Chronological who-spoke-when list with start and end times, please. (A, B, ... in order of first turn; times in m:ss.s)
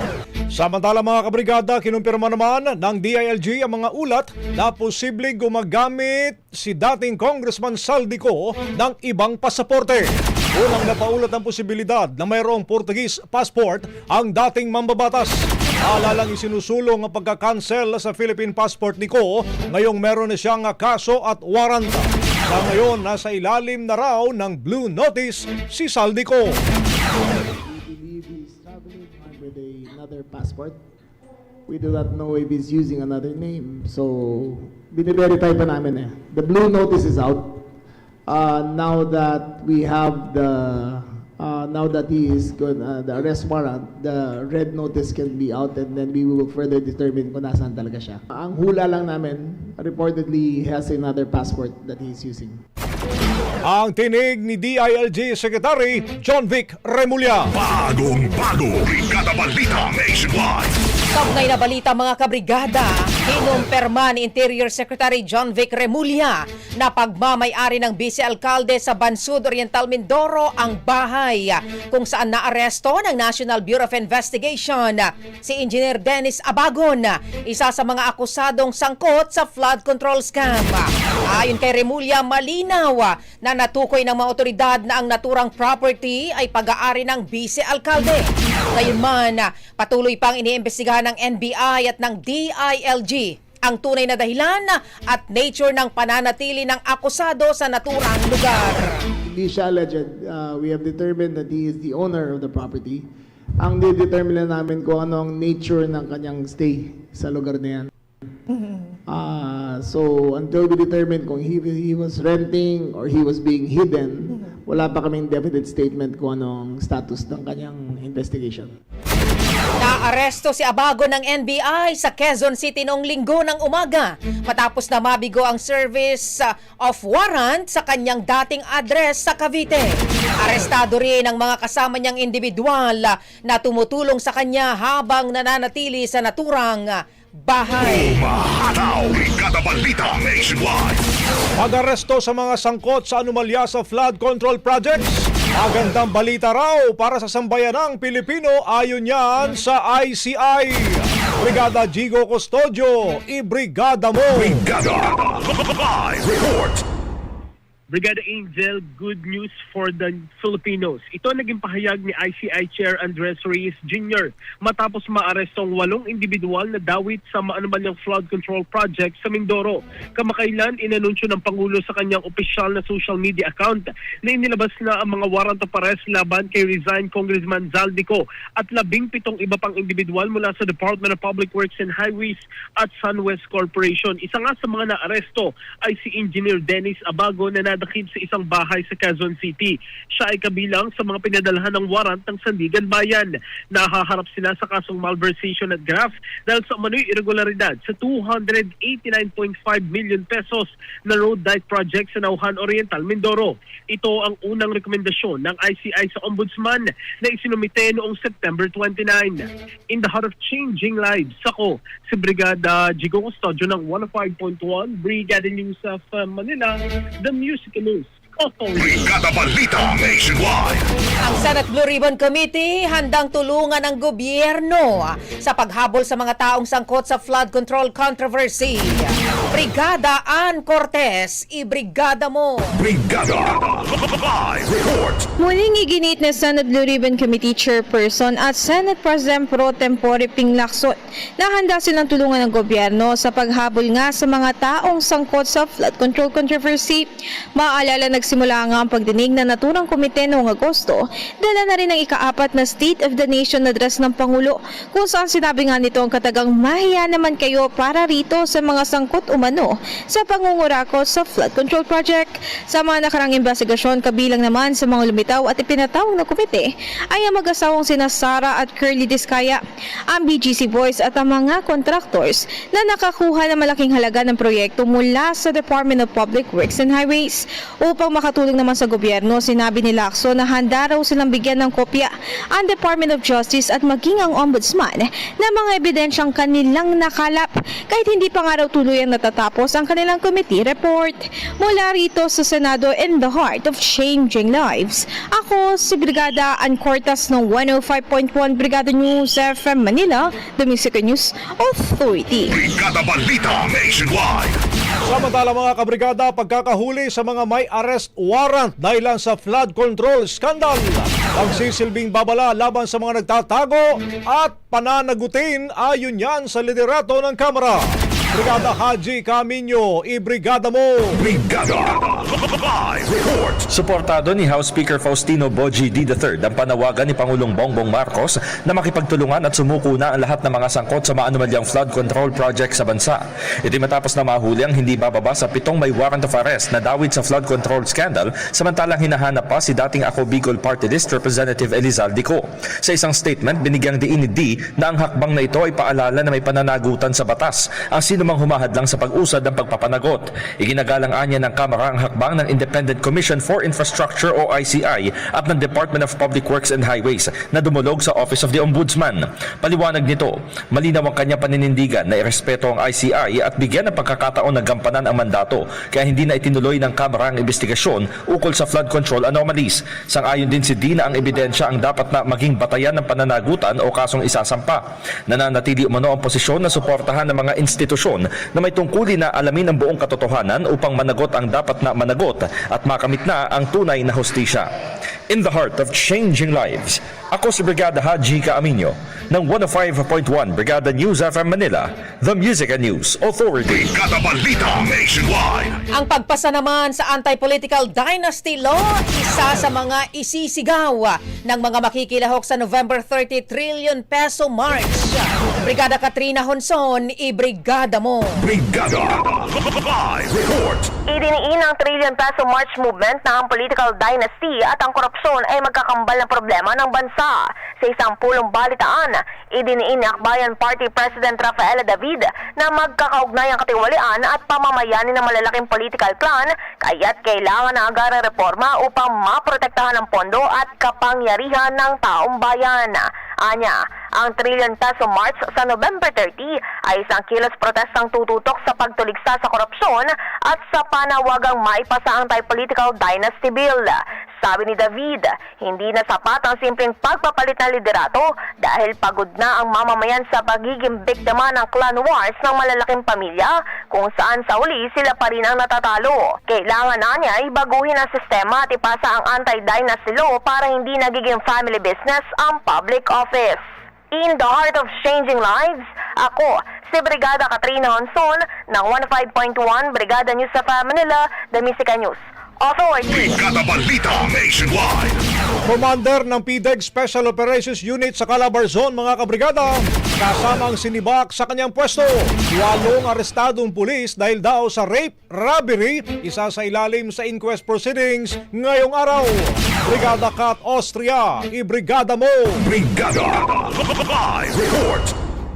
0:00.5-0:26.6 A
0:27.6-0:30.8 B
0:31.7-0:37.7 B
0:38.3-0:52.6 B
0:53.6-0:57.5 A
0:57.5-1:00.8 C
1:01.1-1:39.0 D
1:39.2-1:43.1 B
1:43.6-1:47.9 B
1:49.1-1:58.8 B
1:59.8-2:18.2 D
2:17.8-2:21.0 C
2:21.6-2:34.6 A
2:34.4-2:36.8 C
2:37.9-3:39.0 E
3:38.8-3:40.9 C
3:41.2-3:52.8 D
3:52.8-3:55.2 C
3:55.4-4:29.6 F
4:30.1-5:02.5 F
5:02.5-5:04.6 C
5:05.0-5:21.2 A
5:21.2-5:23.6 C
5:23.7-6:24.7 G
6:25.3-6:33.8 G
6:33.7-6:35.8 C
6:35.9-6:48.4 D
6:48.4-6:50.9 C
6:51.1-7:53.2 H
7:53.1-7:55.2 C
7:55.6-8:12.6 A
8:12.6-8:15.1 C